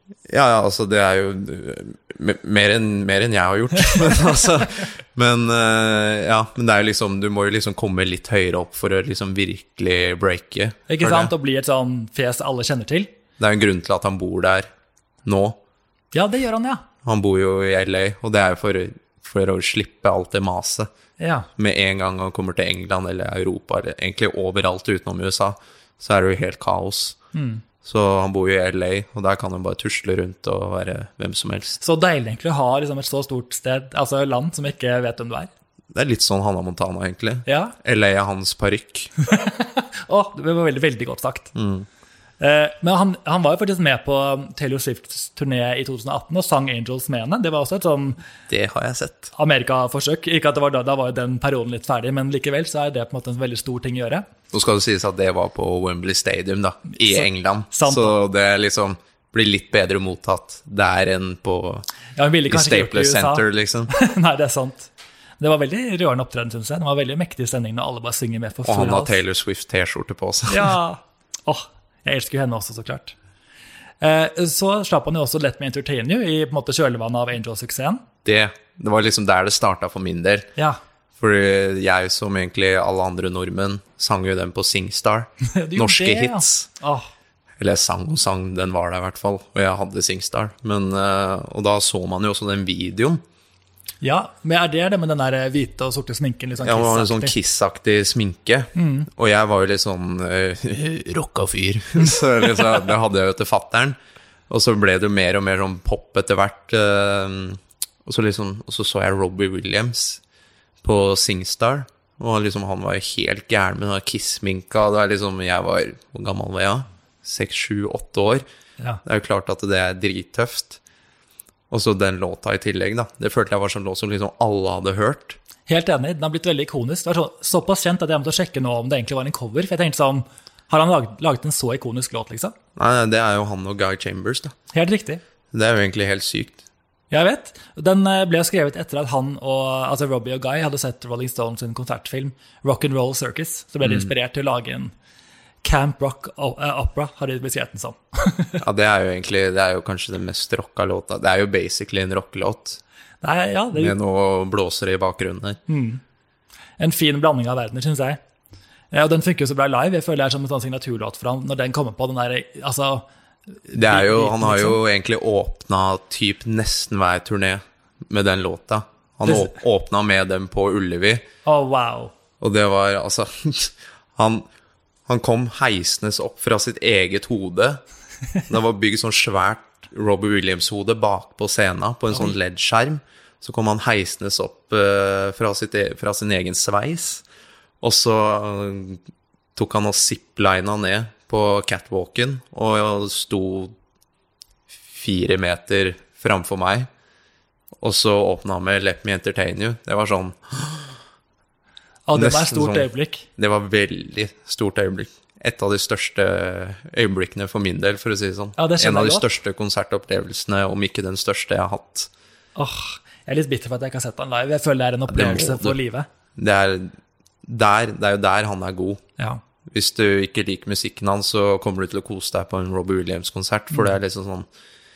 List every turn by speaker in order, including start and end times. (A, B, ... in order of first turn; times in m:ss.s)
0:00.3-0:11.3 A
0:10.9-0:13.1 B
0:13.4-0:14.7 A
0:15.2-0:15.6 A
0:16.1-0:16.8 B
0:17.0-0:20.9 A
0:21.2-0:21.5 B
0:21.6-0:27.2 A
0:27.3-0:27.6 B
0:27.8-0:31.8 A
0:31.8-0:35.5 B
0:35.9-0:39.1 A
0:37.5-0:37.8 B
0:39.2-0:41.5 B
0:41.6-0:41.9 A
0:42.4-0:48.2 B
0:48.5-0:49.3 A
0:49.4-0:54.3 B
0:54.5-1:01.9 A
0:57.0-0:58.2 B
1:02.2-1:09.2 B
1:02.5-1:03.9 A
1:08.6-1:10.8 A
1:10.5-1:13.2 B
1:14.0-1:18.0 B
1:18.2-1:20.5 A
1:21.2-1:26.7 A
1:25.4-1:27.1 B
1:27.6-1:33.2 A
1:34.0-1:37.4 B
1:36.6-1:44.0 A
1:38.8-1:39.1 B
1:44.5-1:50.2 A
1:50.8-1:58.4 A
1:59.0-2:00.8 A
2:01.7-2:05.4 A
2:05.7-2:12.5 B
2:12.8-2:14.6 A
2:14.7-2:15.2 B
2:15.5-2:16.6 A
2:17.1-2:24.9 B
2:23.8-2:24.1 A
2:25.6-2:28.6 B
2:28.6-2:32.8 A
2:33.2-2:34.0 B
2:33.7-2:35.6 A
2:35.7-2:36.0 B
2:36.8-2:38.2 B
2:38.9-2:43.1 B
2:43.6-2:44.8 B
2:43.7-2:51.2 A
2:49.3-2:49.5 B
2:51.4-2:52.1 B
2:52.4-2:54.5 A
2:55.1-2:57.8 A
2:58.5-3:07.2 A
3:07.8-3:09.0 A
3:09.6-3:13.7 A
3:14.9-3:16.9 A
3:17.8-3:20.9 A
3:22.1-3:23.3 B
3:22.1-3:32.1 A
3:28.6-3:29.3 B
3:32.6-3:36.1 B
3:35.1-3:35.8 A
3:36.4-3:36.9 A
3:37.5-3:39.0 A
3:39.7-3:44.5 A